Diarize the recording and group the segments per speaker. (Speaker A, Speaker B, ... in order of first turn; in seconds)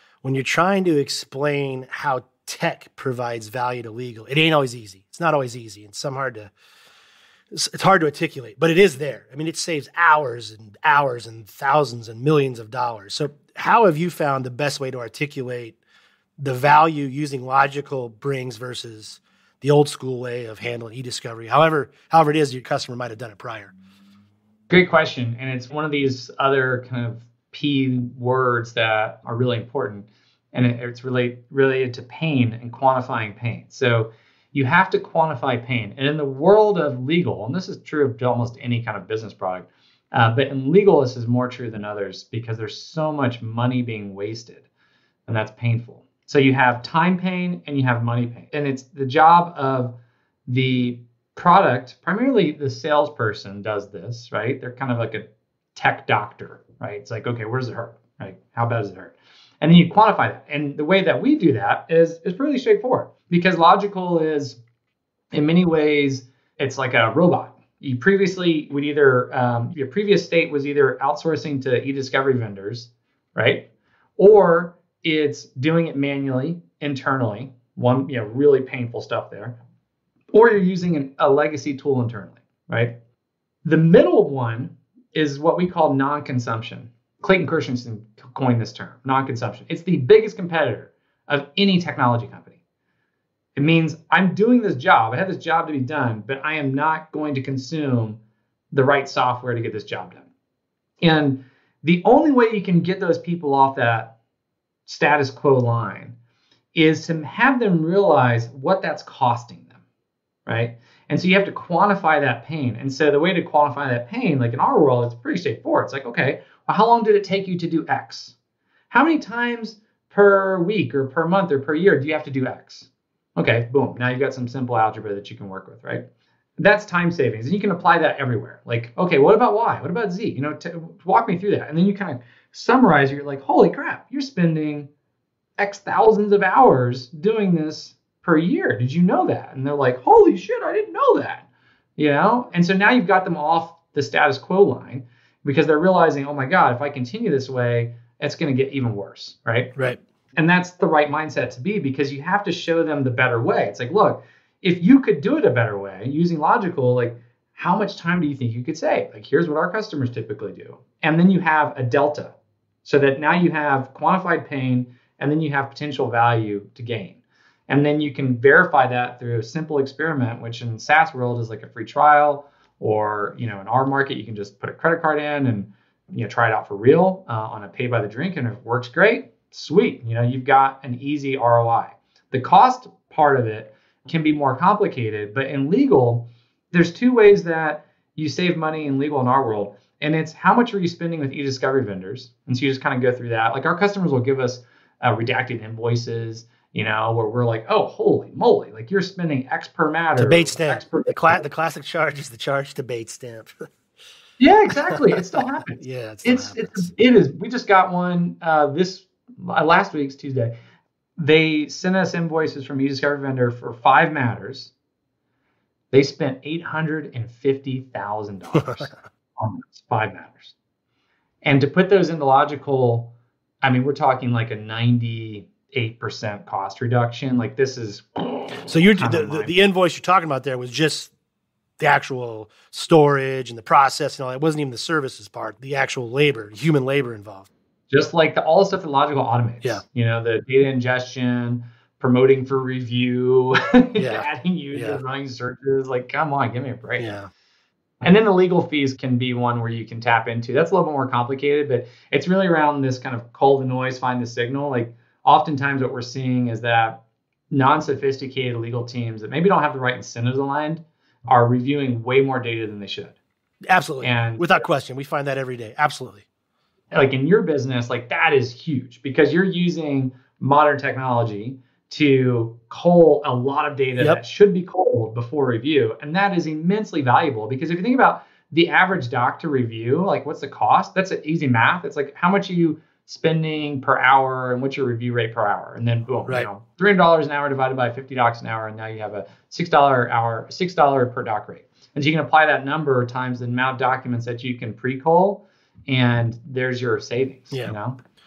Speaker A: 0.2-6.5, 7.5-15.8, 16.4-23.7, 200.2-203.7, 204.9-206.9, 218.6-218.9, 228.7-231.1, 231.8-237.5, 244.0-245.0, 247.0-247.3, 263.7-266.2
Speaker B: 24.7-44.7, 45.3-49.9, 50.5-64.6, 65.3-73.7, 74.2-79.6, 80.3-83.0, 83.7-92.6, 93.6-98.2, 98.7-100.3, 101.0-104.2, 104.9-106.2, 106.7-109.8, 110.5-118.3, 118.9-126.0, 126.6-134.9, 135.6-149.7, 150.4-201.4, 204.4-210.5, 211.2-214.7, 215.9-220.5, 221.4-229.5, 237.9-247.1, 248.0-263.2, 264.0-264.5, 266.9-298.0